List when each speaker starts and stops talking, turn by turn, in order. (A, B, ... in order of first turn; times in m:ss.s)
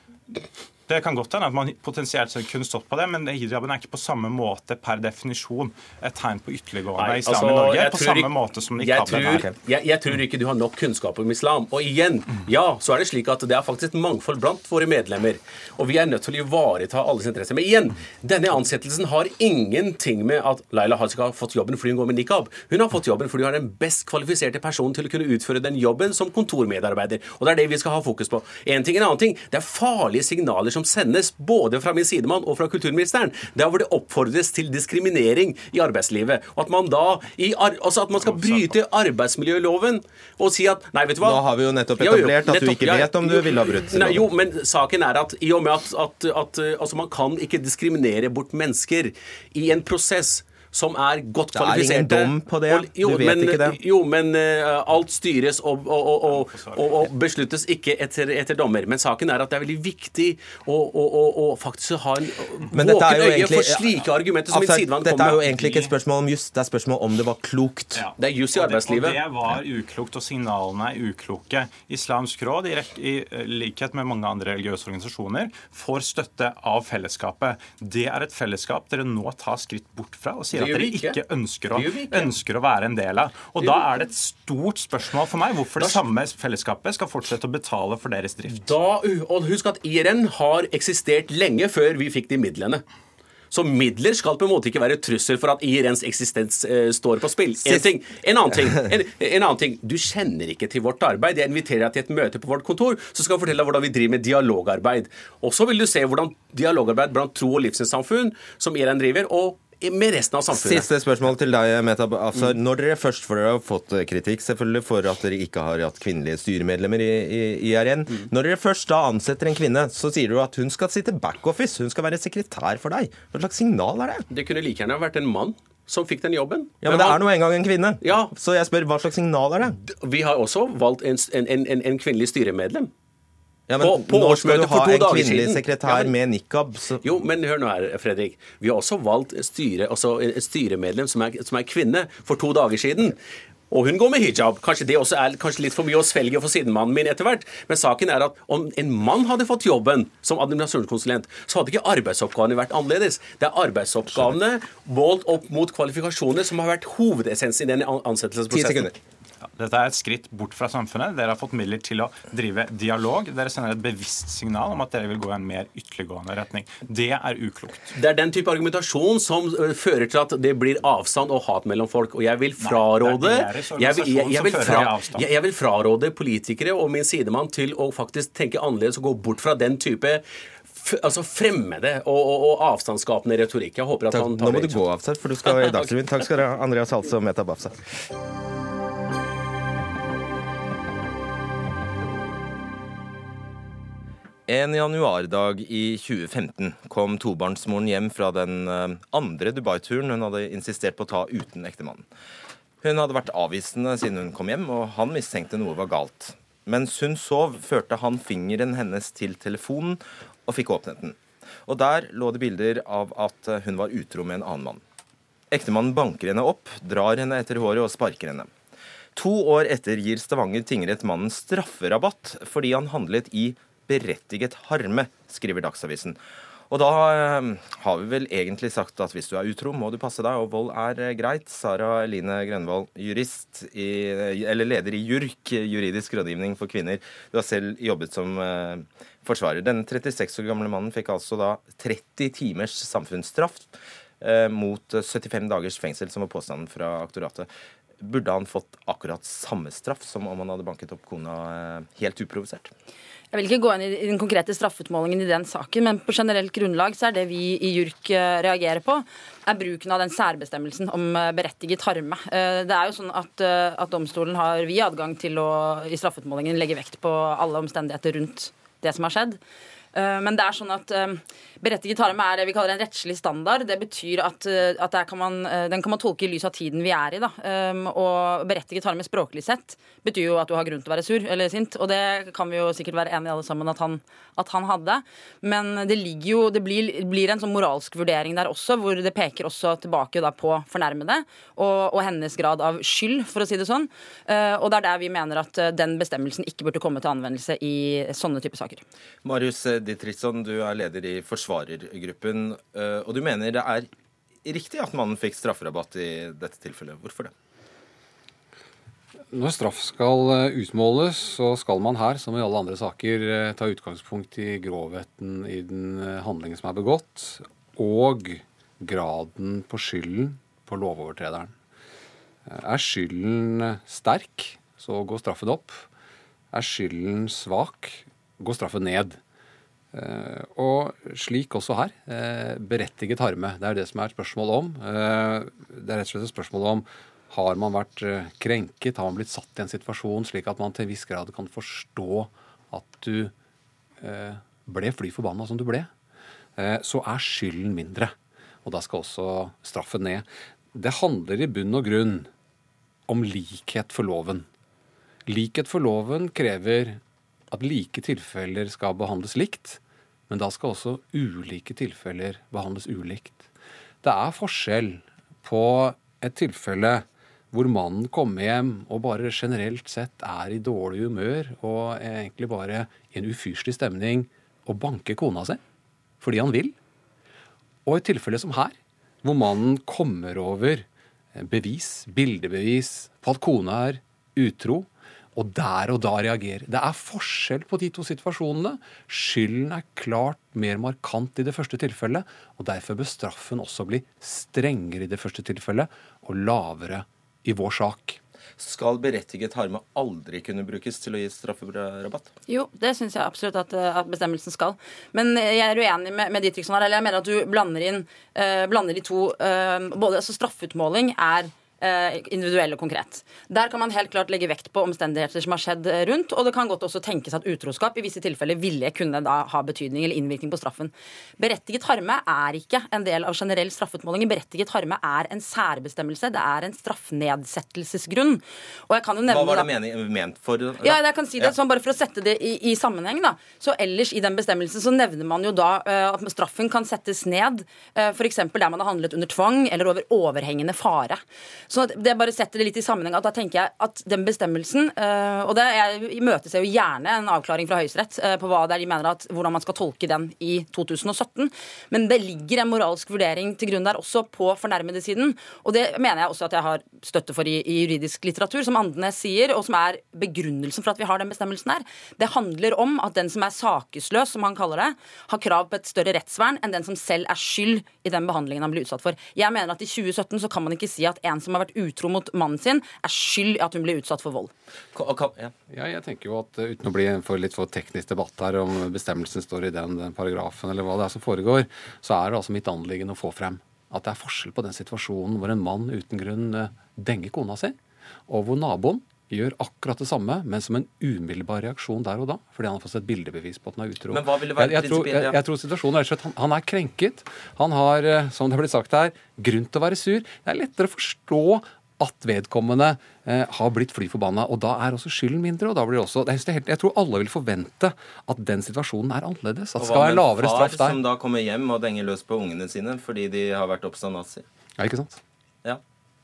0:00.9-0:09.5 A
0:07.0-0:41.4 B
0:09.1-0:09.5 C
0:41.2-0:44.3 C
0:42.0-1:05.9 B
0:51.5-0:53.8 C
0:56.3-0:57.0 A
1:02.7-1:03.8 C
1:04.5-1:08.0 C
1:07.9-1:28.7 A
1:08.2-1:09.2 B
1:20.5-1:21.2 B
1:21.7-1:22.3 B
1:28.6-1:32.8 B
1:33.5-1:50.9 B
1:50.5-2:04.2 C
2:04.3-2:07.2 B
2:06.8-2:09.8 C
2:08.0-2:08.3 B
2:09.8-2:12.9 B
2:13.7-2:17.0 C
2:13.8-2:16.1 B
2:17.0-2:23.2 B
2:23.7-2:38.9 B
2:38.5-2:38.9 C
2:39.6-2:47.9 A
2:47.9-3:04.8 B
2:52.6-2:55.3 A
3:04.1-3:07.8 C
3:05.6-3:05.9 B
3:14.5-3:22.0 C
3:22.8-3:34.8 C
3:35.5-3:38.5 C
3:39.1-3:46.2 C
3:46.7-4:07.5 C
4:08.0-4:12.7 C
4:13.3-4:29.4 D
4:29.9-4:58.8 D
4:59.2-5:03.9 C
5:04.4-5:07.3 C
5:09.3-5:21.5 E
5:22.5-5:25.8 E
5:26.5-5:29.2 E
5:29.9-5:43.3 E
5:44.0-5:45.9 E
5:46.6-5:52.3 E
5:53.1-5:54.4 E
5:55.3-5:57.0 E
5:57.5-6:03.5 E
6:04.0-6:15.6 E
6:16.2-6:16.7 E
6:17.8-6:38.2 E
6:38.6-6:42.3 C
6:42.5-7:09.7 D
7:09.3-7:11.5 C
7:10.8-7:54.5 D
7:54.9-7:55.5 C
7:55.7-8:07.8 E
8:08.3-8:31.0 E
8:14.1-8:15.4 C
8:29.8-8:34.4 C
8:34.8-8:35.2 E